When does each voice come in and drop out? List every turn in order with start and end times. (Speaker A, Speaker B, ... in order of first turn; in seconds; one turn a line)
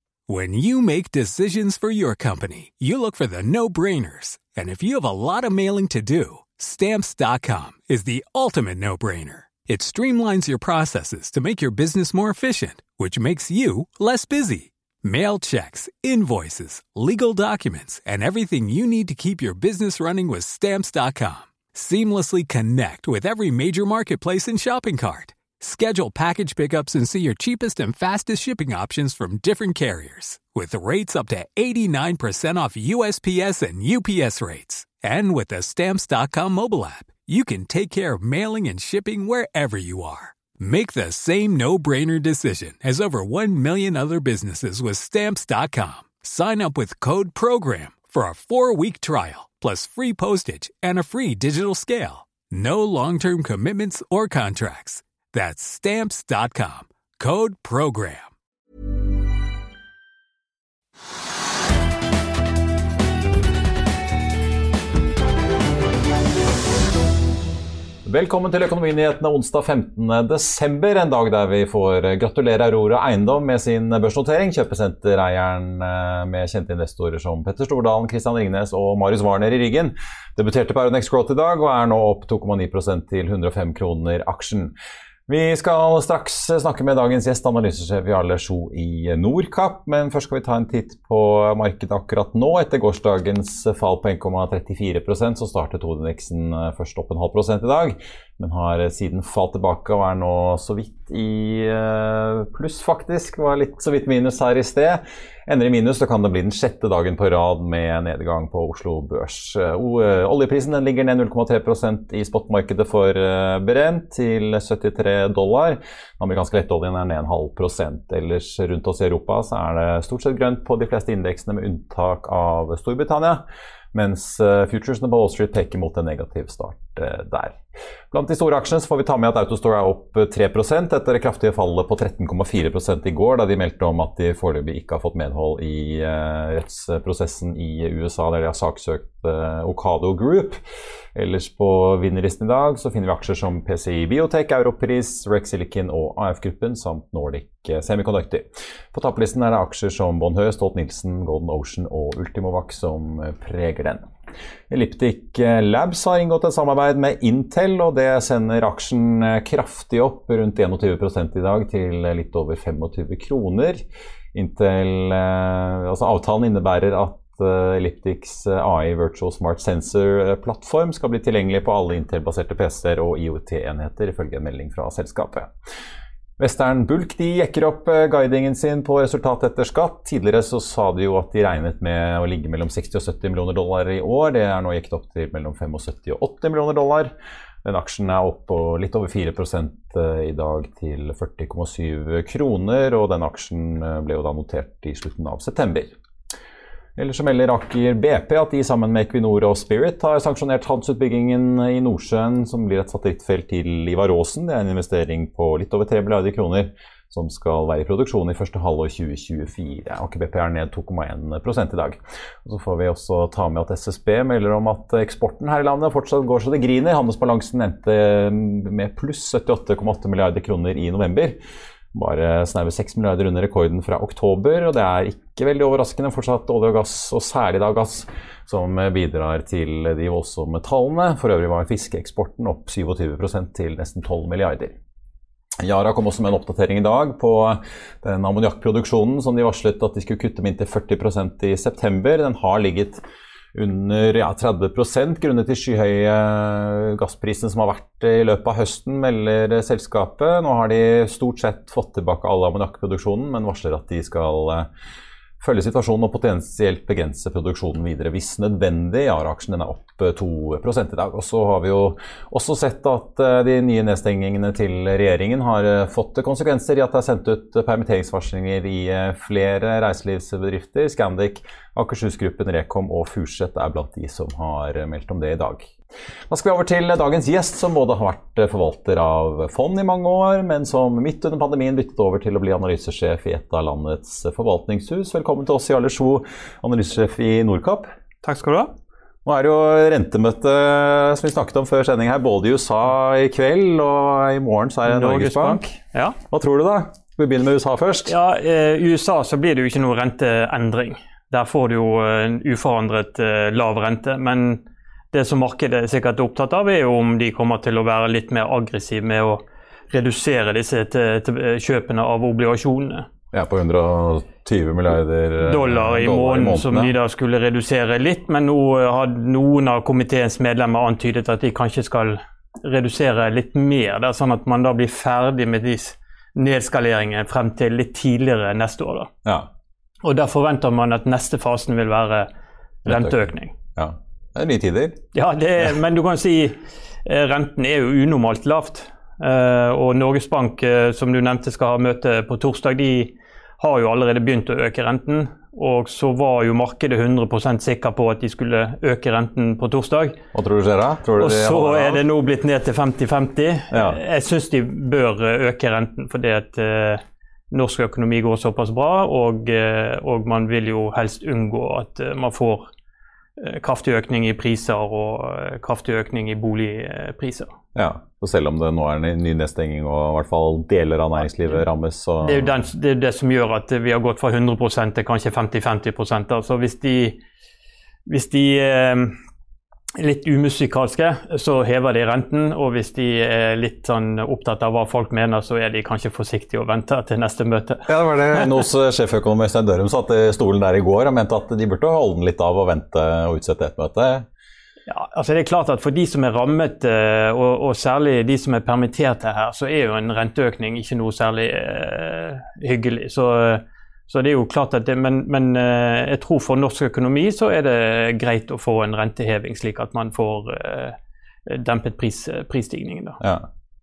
Speaker A: 0.3-58.3
Speaker B: 68.0-84.7
Speaker B: 85.3-127.6
Speaker B: 128.1-140.6
Speaker B: 141.1-154.0
Speaker B: 154.7-163.8
Speaker B: 164.3-175.5
Speaker B: 176.4-187.1
Speaker B: 187.6-195.9
Speaker B: 197.0-221.4
Speaker B: 221.9-234.7
Speaker B: 235.6-243.0
Speaker B: 243.5-254.7
Speaker B: 255.4-275.7
Speaker B: 276.3-287.9
Speaker C: 288.2-288.7
Speaker B: 289.2-295.6
Speaker C: 294.9-296.2
Speaker B: 296.3-298.1
Speaker C: 298.0-313.1
Speaker B: 313.3-316.9
Speaker C: 315.4-329.1
Speaker B: 329.2-329.5
Speaker C: 330.0-332.3
Speaker B: 332.8-335.0
Speaker C: 332.9-333.5
Speaker C: 335.1-350.2
Speaker B: 350.3-352.1
Speaker C: 351.2-362.7
Speaker B: 353.7-354.0
Speaker C: 363.4-367.5
Speaker B: 367.7-372.6
Speaker C: 372.2-377.2
Speaker C: 378.1-379.1
Speaker C: 380.0-388.6
Speaker B: 387.9-394.2
Speaker C: 394.9-413.2
Speaker B: 413.2-413.5